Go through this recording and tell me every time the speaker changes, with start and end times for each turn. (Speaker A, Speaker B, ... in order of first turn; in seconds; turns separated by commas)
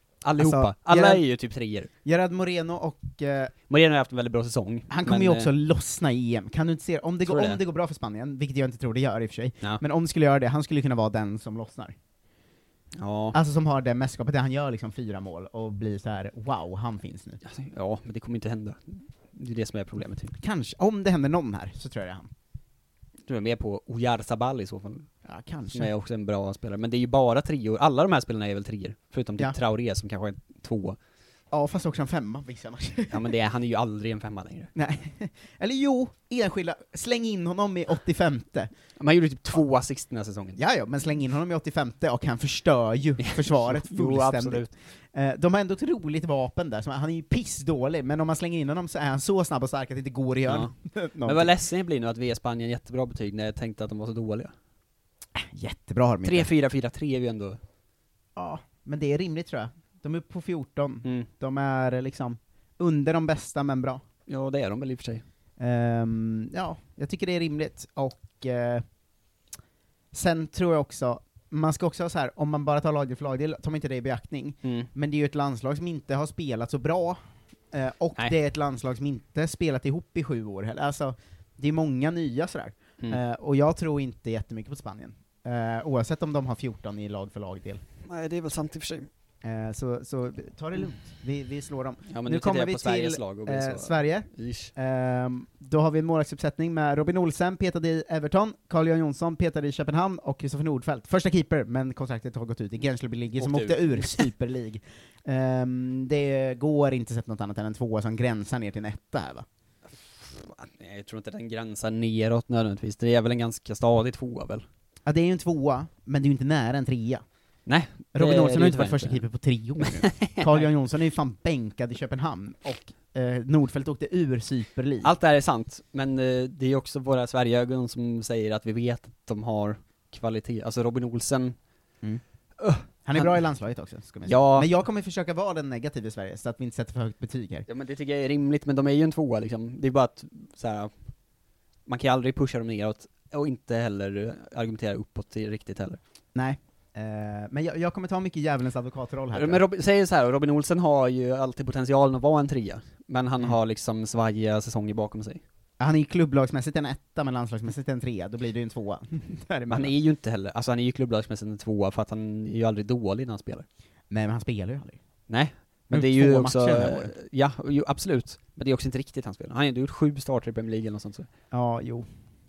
Speaker A: 0.2-1.9, Speaker B: 0.4-1.2, Speaker B: 2.0-3.5, Speaker A: 3.7-5.5, Speaker B: 4.9-11.9, Speaker A: 7.3-7.6, Speaker A: 13.0-13.4, Speaker B: 13.3-17.4, Speaker A: 17.4-20.3, Speaker B: 20.3-22.3, Speaker A: 23.3-25.1, Speaker B: 25.2-25.9, Speaker A: 25.7-31.0, Speaker B: 31.5-33.2, Speaker A: 33.1-34.7, Speaker B: 34.8-38.7, Speaker A: 39.0-40.6, Speaker B: 40.6-51.5, Speaker A: 43.2-44.7, Speaker A: 50.5-50.7, Speaker A: 51.2-54.5, Speaker B: 55.4-56.5, Speaker A: 56.2-57.6, Speaker B: 58.4-64.0, Speaker A: 64.3-65.2, Speaker B: 65.6-68.8, Speaker B: 70.1-77.2, Speaker A: 74.6-74.9, Speaker B: 77.7-87.8, Speaker A: 88.0-89.1, Speaker B: 89.4-109.5, Speaker A: 92.1-94.7, Speaker A: 103.4-104.3, Speaker A: 110.2-114.7, Speaker B: 115.1-117.2, Speaker A: 117.7-119.2, Speaker B: 118.1-125.1, Speaker A: 119.8-120.7, Speaker A: 125.0-131.6, Speaker A: 132.6-133.4, Speaker B: 133.0-137.7, Speaker A: 134.3-134.7, Speaker A: 137.7-140.9, Speaker A: 141.9-146.0, Speaker B: 146.3-149.6, Speaker A: 149.3-155.4, Speaker B: 155.8-159.9, Speaker A: 159.7-163.7, Speaker B: 164.1-165.0, Speaker A: 165.3-171.3, Speaker B: 165.9-167.1, Speaker B: 171.5-172.1